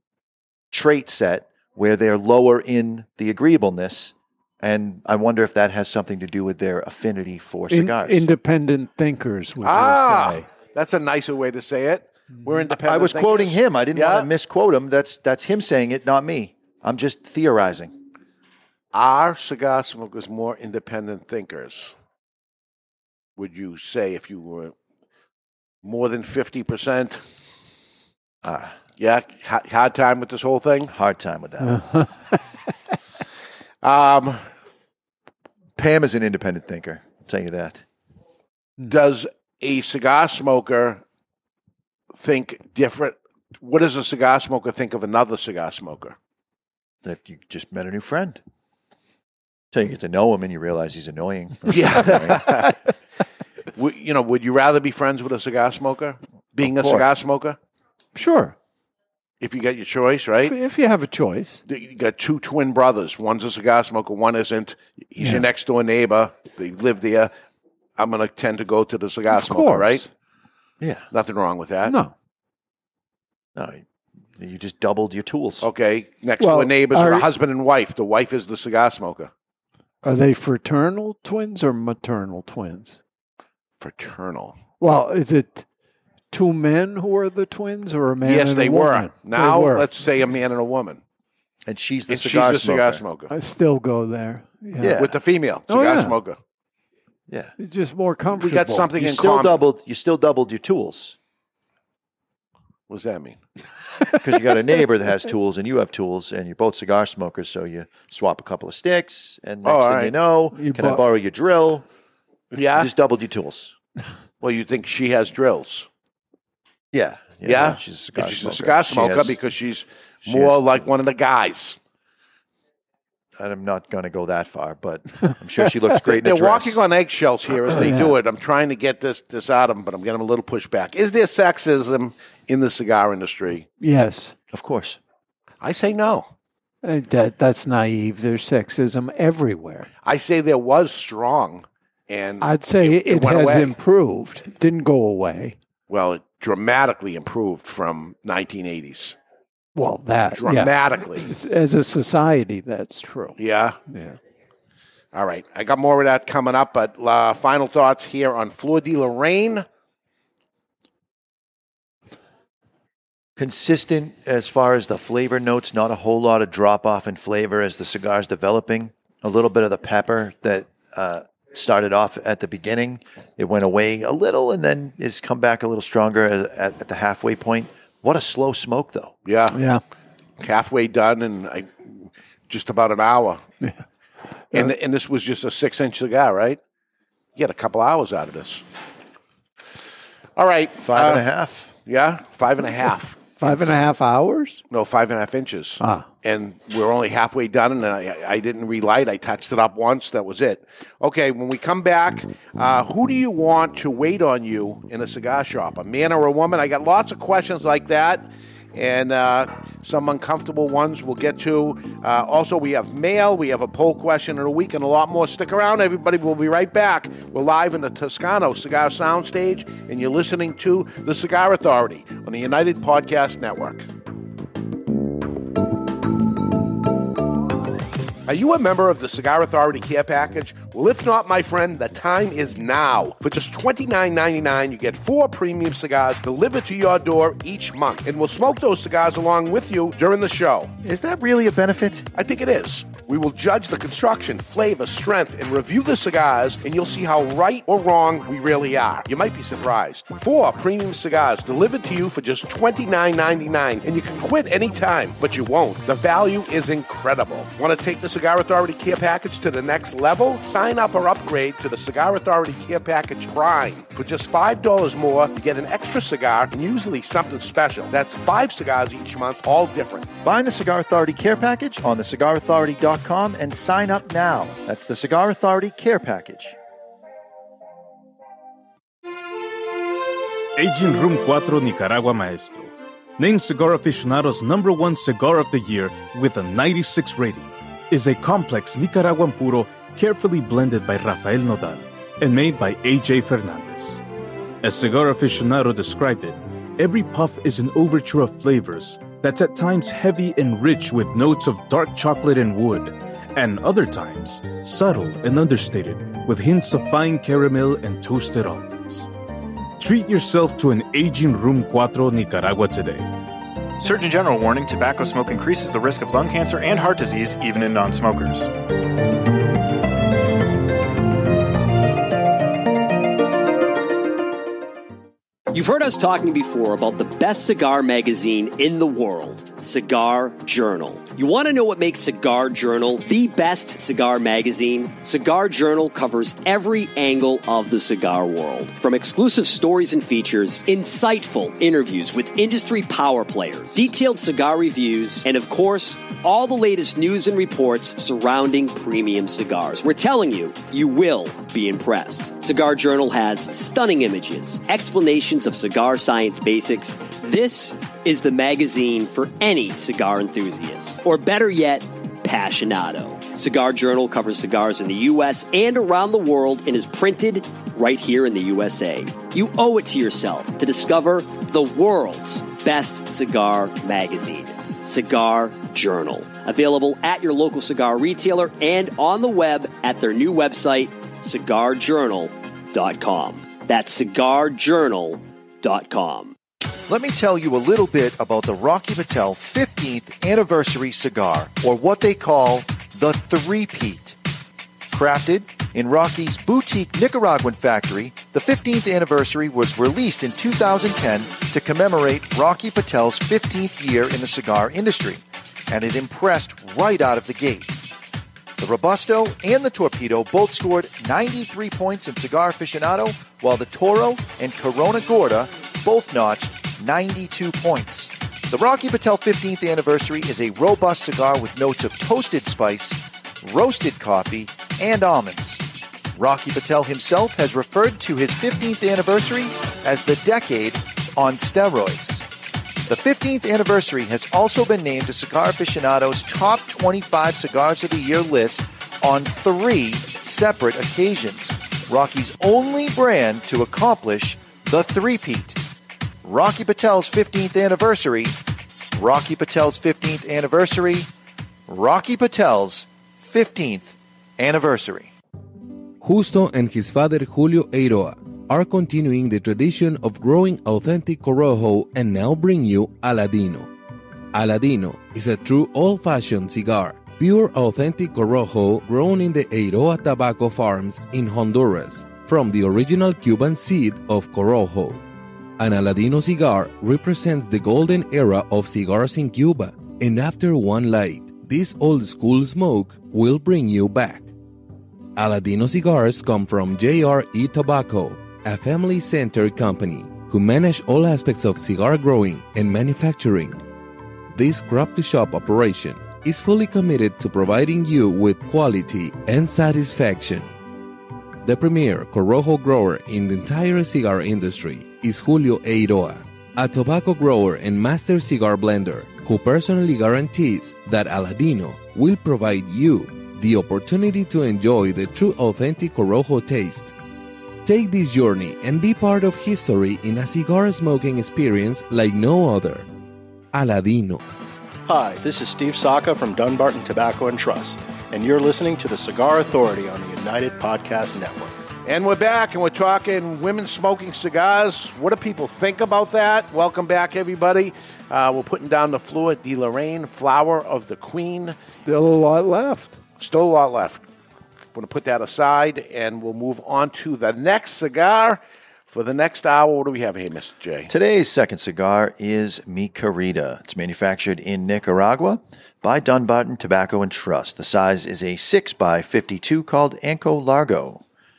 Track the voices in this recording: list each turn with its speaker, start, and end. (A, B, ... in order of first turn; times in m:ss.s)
0:00.7-0:08.2 A
0:07.7-0:10.4 B
0:09.6-0:14.3 C
0:12.7-0:17.9 A
0:18.9-0:21.9 C
0:23.4-0:24.7 C
0:25.8-0:27.2 C
0:28.4-0:28.8 A
0:29.0-0:30.9 C
0:30.9-0:31.8 A
0:31.6-0:32.3 B
0:33.8-0:34.4 C
0:35.8-0:37.8 A
0:38.9-0:41.0 C
0:42.1-0:46.2 C
0:47.0-0:48.4 A
0:49.7-0:52.5 A
0:51.7-0:52.7 C
0:53.8-0:57.6 C
0:58.1-0:58.5 B
0:59.4-1:00.5 C
1:00.4-1:01.6 B
1:01.7-1:07.3 C
1:05.2-1:05.4 B
1:08.0-1:10.0 C
1:09.3-1:10.1 B
1:10.8-1:11.0 A
1:11.1-1:11.9 C
1:11.8-1:12.1 B
1:13.6-1:13.8 A
1:14.4-1:15.7 A
1:15.6-1:19.3 C
1:16.4-1:17.3 B
1:20.0-1:23.0 B
1:23.8-1:24.6 C
1:24.8-1:25.6 B
1:26.3-1:29.9 B
1:28.2-1:31.0 C
1:31.6-1:33.0 A
1:32.1-1:33.3 C
1:33.3-1:35.0 B
1:34.8-1:35.2 A
1:35.0-1:36.4 C
1:35.7-1:36.2 B
1:37.3-1:37.5 A
1:37.6-1:38.9 B
1:38.4-1:39.6 C
1:39.0-1:41.2 A
1:42.9-1:43.4 C
1:44.2-1:51.8 A
1:49.6-1:50.1 C
1:50.5-1:51.0 B
1:52.5-1:52.9 C
1:52.7-1:53.7 A
1:54.4-1:55.9 C
1:56.9-1:59.4 A
1:57.4-2:01.8 C
2:00.2-2:00.8 A
2:03.4-2:06.8 A
2:06.0-2:13.7 C
2:07.6-2:08.0 A
2:07.7-2:08.1 B
2:13.8-2:14.3 B
2:14.5-2:15.0 A
2:15.6-2:16.3 C
2:16.8-2:19.9 B
2:20.0-2:23.7 C
2:22.4-2:25.6 B
2:25.9-2:29.2 C
2:29.7-2:34.2 B
2:30.3-2:31.3 C
2:33.4-2:33.8 C
2:35.1-2:39.6 C
2:43.4-2:59.1 A
2:59.2-2:59.6 C
2:59.5-2:59.8 B
3:00.4-3:03.4 C
3:04.5-3:06.6 C
3:07.4-3:08.6 C
3:10.4-3:11.2 C
3:10.8-3:11.7 A
3:11.9-3:13.2 C
3:13.4-3:14.6 B
3:14.7-3:43.8 C
3:15.8-3:16.1 B
3:48.3-4:00.7 C
4:00.8-4:02.1 A
4:02.1-4:30.1 C
4:30.2-4:36.6 A
4:40.6-4:54.0 D
4:54.6-5:09.1 D
5:09.8-5:13.1 D
5:13.8-5:18.5 E
5:25.5-6:26.3 F
6:26.9-6:34.2 A
6:34.9-6:47.8 A
6:48.6-7:05.6 A
7:06.2-7:12.2 A
7:12.8-7:25.6 A
7:26.2-7:28.4 A
7:28.9-7:31.1 A
7:31.7-7:35.1 A
7:36.0-7:43.7 G
7:44.3-7:55.0 G
7:55.6-8:04.3 G
8:05.2-8:13.6 G
8:14.3-8:20.5 G
8:21.4-8:36.9 G
8:37.6-8:42.8 G
8:43.5-8:44.2 G
8:44.9-8:51.5 H
8:51.8-9:01.6 C
9:01.7-9:03.0 B
9:03.2-9:04.0 C
9:04.7-9:10.9 C
9:10.9-9:21.0 A